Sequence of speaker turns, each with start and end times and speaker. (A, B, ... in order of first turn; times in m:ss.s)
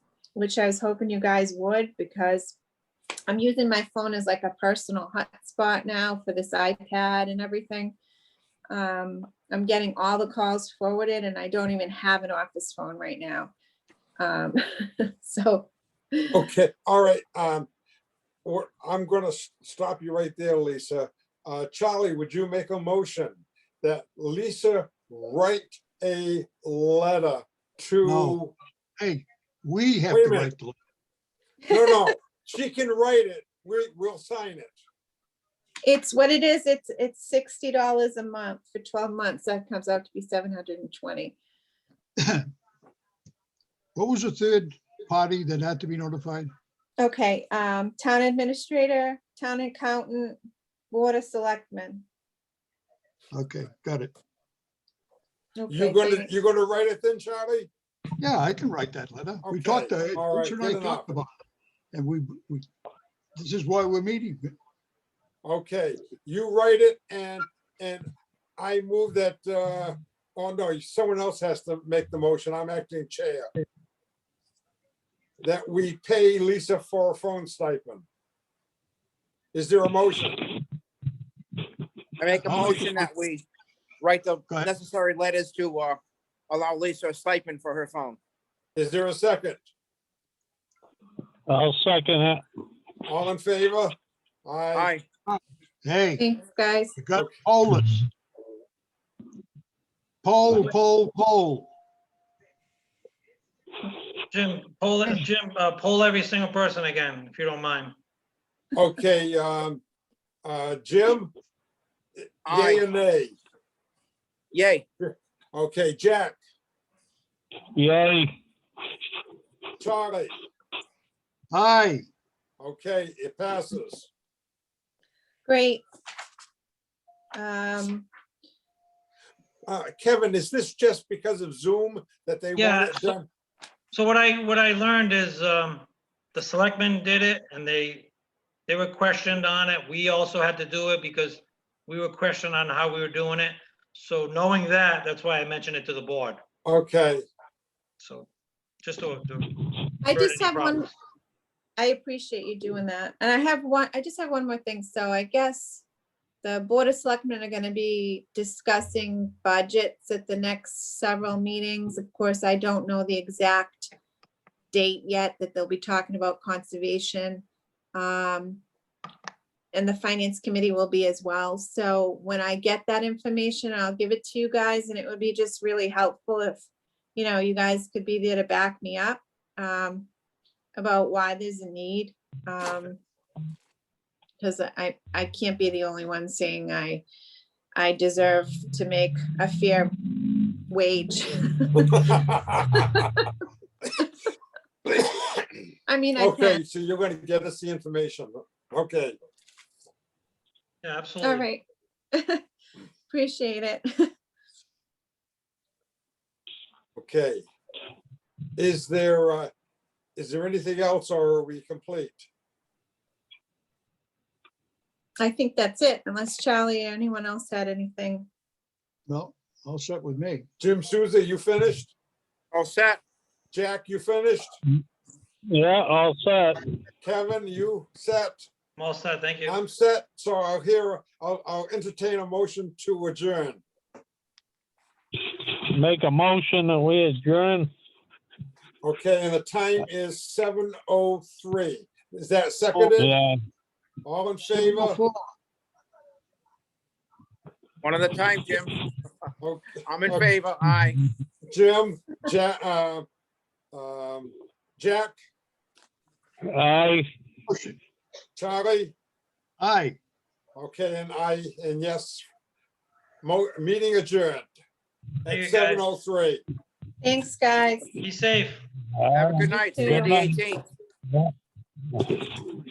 0:00.4-0:02.6 A
0:03.3-0:08.0 A
0:08.7-0:13.5 A
0:14.2-0:16.3 A
0:16.3-0:17.7 B
0:18.4-0:28.5 B
0:28.0-0:28.4 C
0:29.0-0:30.8 C
0:30.1-0:30.5 B
0:31.7-0:34.8 B
0:35.8-0:41.4 A
0:44.0-0:46.5 C
0:47.0-0:50.4 A
0:50.9-0:52.0 A
0:53.3-0:54.1 C
0:55.6-0:56.3 A
0:55.7-0:57.7 B
0:58.2-1:01.3 C
0:59.4-1:01.1 B
1:01.9-1:02.7 C
1:03.4-1:04.6 C
1:05.4-1:13.5 B
1:15.4-1:18.0 B
1:19.5-1:20.4 B
1:22.2-1:23.4 D
1:22.4-1:23.1 C
1:24.0-1:28.2 D
1:28.8-1:29.6 B
1:31.5-1:32.4 E
1:33.1-1:35.0 B
1:34.8-1:35.0 D
1:35.3-1:36.2 C
1:36.2-1:37.0 A
1:37.0-1:38.1 C
1:40.2-1:41.7 C
1:44.3-1:48.0 F
1:48.7-1:49.8 B
1:50.4-1:51.3 B
1:52.5-1:52.8 D
1:52.5-1:53.4 B
1:54.5-1:54.8 D
1:55.0-1:56.4 B
1:57.8-1:58.3 E
1:59.8-2:00.4 B
2:01.5-2:02.0 C
2:02.6-2:04.1 B
2:05.5-2:05.8 A
2:07.3-2:08.1 A
2:09.7-2:13.3 B
2:12.6-2:13.2 F
2:13.9-2:18.1 F
2:18.7-2:26.4 F
2:26.6-2:27.2 B
2:28.0-2:28.3 F
2:28.8-2:29.5 F
2:30.0-2:30.9 A
2:30.1-2:30.9 F
2:31.8-2:35.8 A
2:36.4-2:43.9 A
2:44.7-2:48.6 A
2:49.7-2:56.6 A
2:57.2-3:00.1 A
3:00.8-3:03.0 A
3:04.4-3:07.0 A
3:07.8-3:09.9 A
3:10.6-3:12.0 A
3:11.8-3:12.8 B
3:12.7-3:13.2 A
3:14.9-3:15.7 B
3:15.9-3:16.6 A
3:16.2-3:19.2 B
3:20.8-3:21.5 F
3:21.2-3:22.4 A
3:23.1-3:24.1 A
3:27.0-3:27.5 B
3:28.6-3:29.5 B
3:30.2-3:32.3 B
3:35.2-3:38.3 A
3:39.1-3:40.5 C
3:40.6-3:41.9 B
3:42.5-3:43.0 D
3:43.5-3:44.6 B
3:45.5-3:46.6 E
3:47.0-3:48.5 B
3:48.8-3:49.6 F
3:49.5-3:53.6 B
3:55.8-3:57.7 E
3:58.8-4:03.2 B
4:03.0-4:03.4 E
4:04.0-4:05.0 B
4:04.5-4:05.3 C
4:07.8-4:08.7 D
4:09.4-4:10.3 B
4:09.9-4:11.0 D
4:11.5-4:13.1 B
4:13.7-4:15.2 B
4:16.5-4:17.0 E
4:17.5-4:17.8 C
4:18.4-4:18.9 B
4:19.6-4:20.0 C
4:20.6-4:22.2 B
4:23.2-4:24.5 B
4:25.2-4:26.4 B
4:25.3-4:25.9 F
4:27.0-4:28.0 A
4:28.0-4:28.7 F
4:29.0-4:30.3 E
4:29.1-4:30.6 D
4:29.5-4:30.3 A